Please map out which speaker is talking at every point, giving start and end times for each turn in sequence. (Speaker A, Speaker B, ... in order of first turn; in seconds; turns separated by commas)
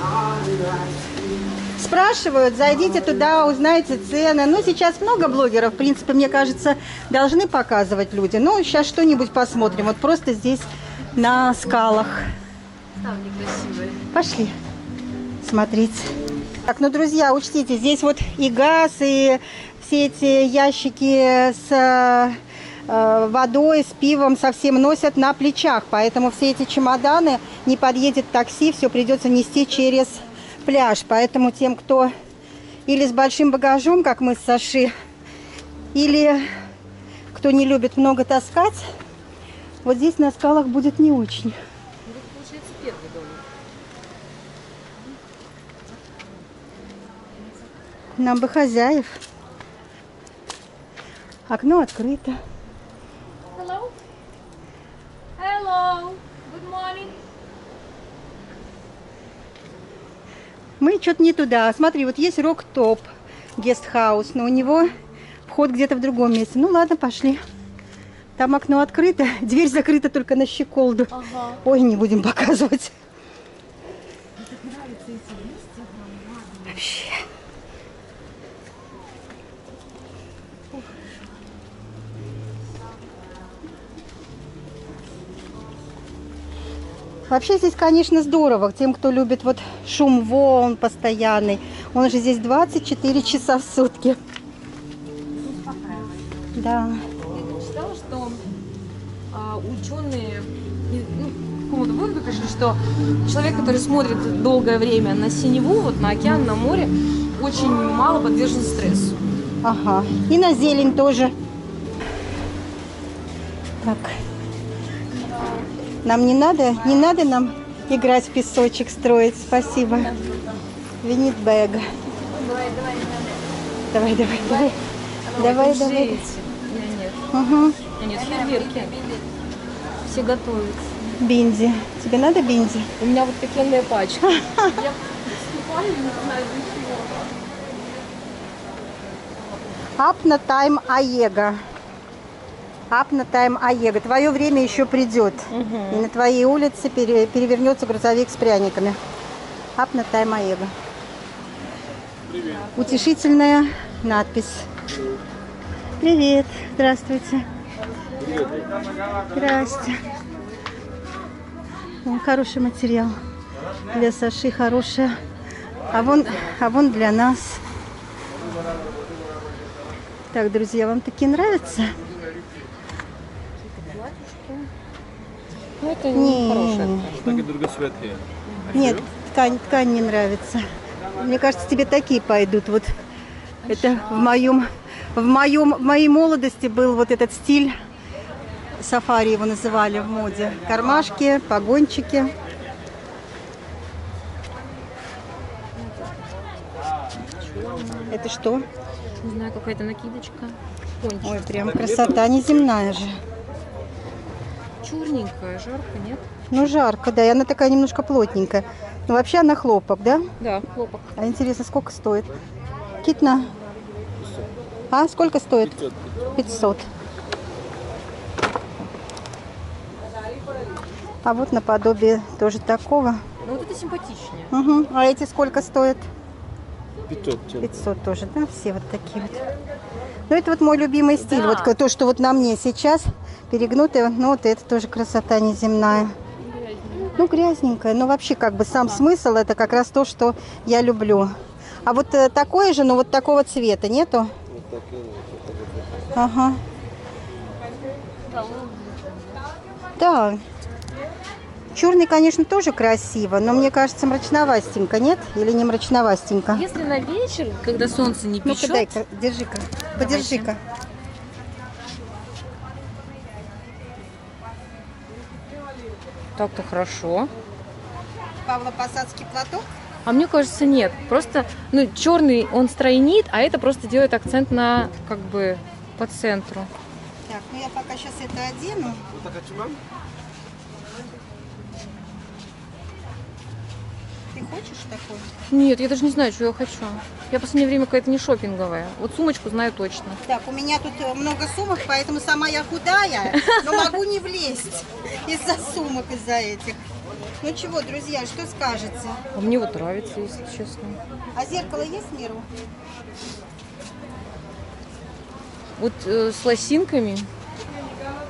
Speaker A: 1.8-12.2, Speaker B: 13.0-14.0, Speaker A: 14.1-14.5, Speaker A: 15.4-16.1, Speaker A: 16.6-32.1, Speaker A: 32.9-34.9, Speaker A: 35.9-36.4, Speaker A: 37.3-38.8, Speaker A: 39.8-41.6, Speaker B: 42.0-43.4, Speaker A: 48.2-49.2, Speaker A: 51.5-52.4, Speaker B: 53.5-53.9, Speaker B: 55.4-57.2, Speaker A: 60.8-64.9, Speaker A: 65.5-67.4, Speaker A: 68.4-72.9, Speaker B: 71.1-71.6, Speaker B: 74.5-76.1, Speaker A: 76.7-77.2, Speaker A: 87.3-94.2, Speaker A: 96.5-97.0, Speaker B: 97.3-98.4, Speaker B: 99.3-109.2, Speaker A: 109.6-111.3, Speaker A: 113.8-114.1, Speaker A: 116.0-120.2, Speaker A: 121.0-121.9, Speaker A: 123.9-124.8, Speaker B: 125.3-127.2, Speaker A: 125.4-126.3, Speaker A: 127.3-127.8, Speaker B: 128.0-129.0, Speaker B: 130.1-130.9, Speaker A: 131.2-132.9, Speaker B: 133.0-137.2, Speaker A: 134.3-134.7, Speaker A: 140.0-141.6, Speaker A: 142.9-149.0, Speaker B: 145.5-146.1, Speaker A: 149.8-150.7, Speaker A: 152.8-154.7, Speaker A: 156.0-157.5, Speaker C: 158.2-158.7, Speaker A: 159.3-160.0, Speaker A: 162.0-163.2, Speaker A: 163.9-165.2, Speaker A: 165.9-167.6, Speaker A: 170.3-172.0, Speaker B: 173.6-174.7, Speaker B: 175.8-177.4, Speaker A: 176.1-177.2, Speaker C: 177.1-178.2, Speaker B: 178.5-178.8, Speaker C: 178.7-179.1, Speaker A: 178.7-180.6, Speaker A: 181.2-182.9, Speaker B: 183.7-184.2, Speaker A: 183.7-187.7, Speaker A: 188.8-192.3, Speaker B: 195.8-196.3, Speaker B: 197.2-198.1, Speaker A: 198.1-198.7, Speaker B: 199.2-201.4, Speaker A: 201.2-203.2, Speaker C: 201.6-202.5, Speaker B: 204.8-206.3, Speaker A: 206.5-210.2, Speaker B: 210.4-211.2, Speaker A: 211.2-212.3, Speaker A: 213.0-213.5, Speaker C: 214.2-214.5, Speaker A: 214.9-215.8, Speaker C: 215.6-216.1, Speaker A: 216.3-216.8, Speaker A: 221.2-223.2, Speaker B: 223.4-224.5, Speaker A: 224.5-226.1, Speaker C: 227.1-227.8, Speaker A: 227.6-229.4, Speaker A: 230.3-236.1, Speaker B: 231.2-231.7, Speaker B: 236.4-237.2, Speaker A: 237.1-241.3, Speaker A: 241.8-244.3, Speaker C: 244.5-246.1, Speaker A: 246.2-246.6, Speaker B: 248.3-249.1, Speaker A: 250.0-250.4, Speaker A: 251.7-256.6, Speaker B: 256.5-259.0, Speaker A: 258.4-260.6, Speaker B: 260.0-260.5, Speaker B: 266.4-267.3, Speaker A: 268.4-269.7, Speaker B: 270.1-276.7, Speaker A: 277.3-279.0, Speaker C: 279.1-279.8, Speaker A: 284.3-285.3, Speaker B: 285.5-290.2, Speaker A: 290.3-296.8, Speaker B: 293.4-293.9, Speaker A: 297.4-299.2, Speaker B: 299.3-301.0, Speaker A: 301.3-302.5, Speaker B: 305.8-307.3